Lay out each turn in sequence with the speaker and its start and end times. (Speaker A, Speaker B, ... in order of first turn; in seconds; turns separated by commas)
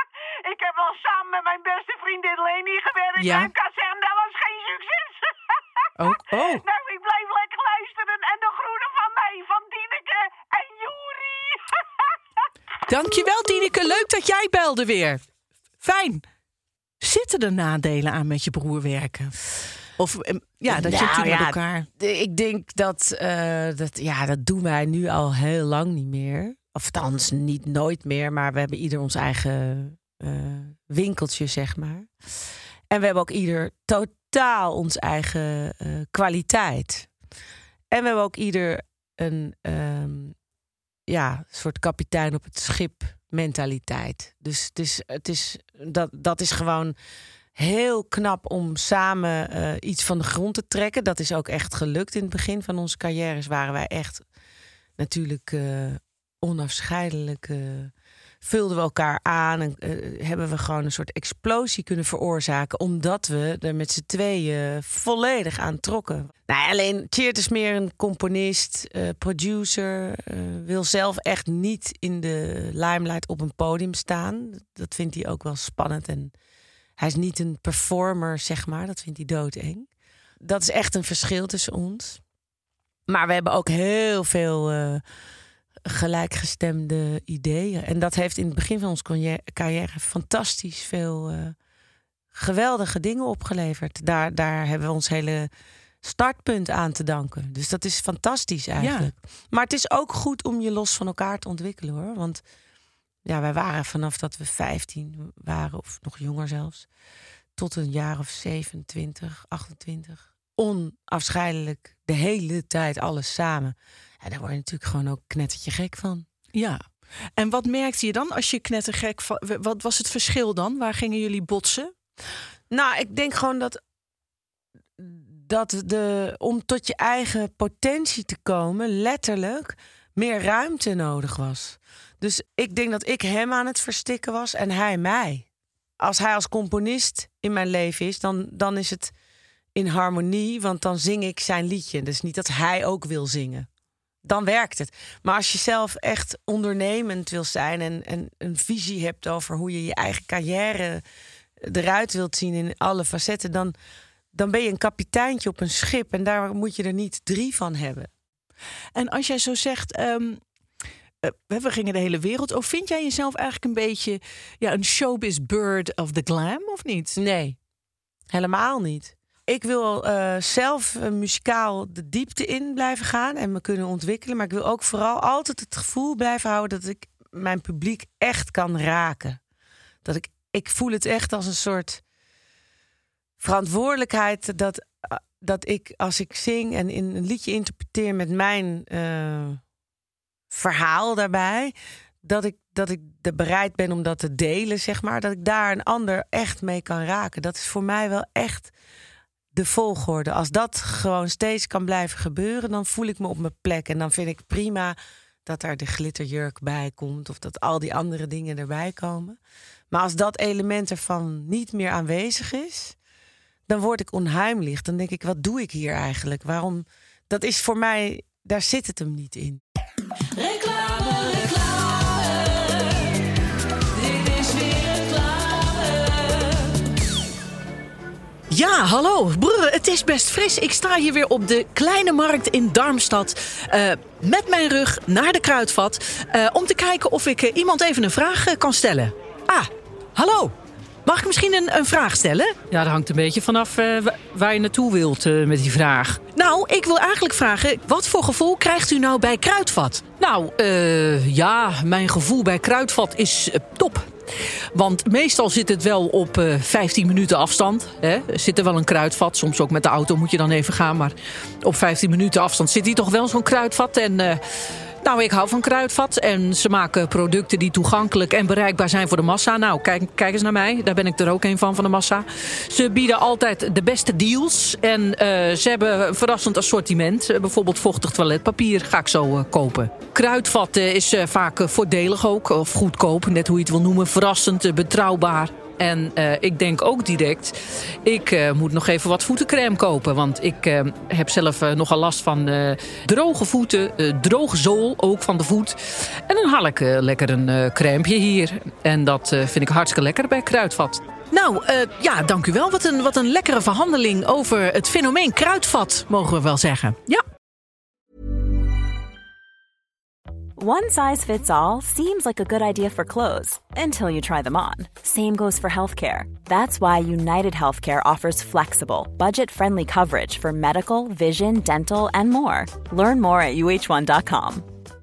Speaker A: 0.4-12.0, Speaker B: 3.2-3.5, Speaker B: 6.0-6.6, Speaker B: 12.9-15.2, Speaker B: 15.8-16.2, Speaker B: 17.0-21.9, Speaker C: 20.7-32.1, Speaker C: 32.9-37.1, Speaker C: 37.9-40.4, Speaker C: 41.1-46.9, Speaker C: 47.5-54.2, Speaker C: 55.0-76.3, Speaker C: 77.0-79.9, Speaker C: 80.4-82.2, Speaker C: 83.1-85.0, Speaker C: 85.9-91.5, Speaker C: 92.3-95.5, Speaker C: 96.0-102.4, Speaker B: 98.8-99.1, Speaker C: 103.2-106.9, Speaker C: 107.6-116.2, Speaker B: 116.5-121.9, Speaker C: 122.7-123.8, Speaker C: 125.0-135.5, Speaker C: 136.0-139.1, Speaker C: 139.8-143.7, Speaker C: 144.2-151.0, Speaker C: 151.6-153.7, Speaker C: 154.3-158.1, Speaker B: 158.9-160.4, Speaker B: 161.2-167.2, Speaker C: 167.2-167.6, Speaker C: 168.3-179.4, Speaker C: 180.0-182.0, Speaker C: 183.4-189.6, Speaker C: 190.5-198.7, Speaker C: 199.5-209.4, Speaker C: 209.9-212.9, Speaker C: 213.7-219.6, Speaker B: 220.5-222.1, Speaker B: 224.2-225.7, Speaker B: 228.5-240.5, Speaker B: 241.0-242.5, Speaker D: 242.7-246.2, Speaker B: 246.3-250.0, Speaker D: 250.2-254.1, Speaker D: 254.7-264.4, Speaker D: 265.0-301.0, Speaker B: 301.3-307.2, Speaker E: 310.6-324.7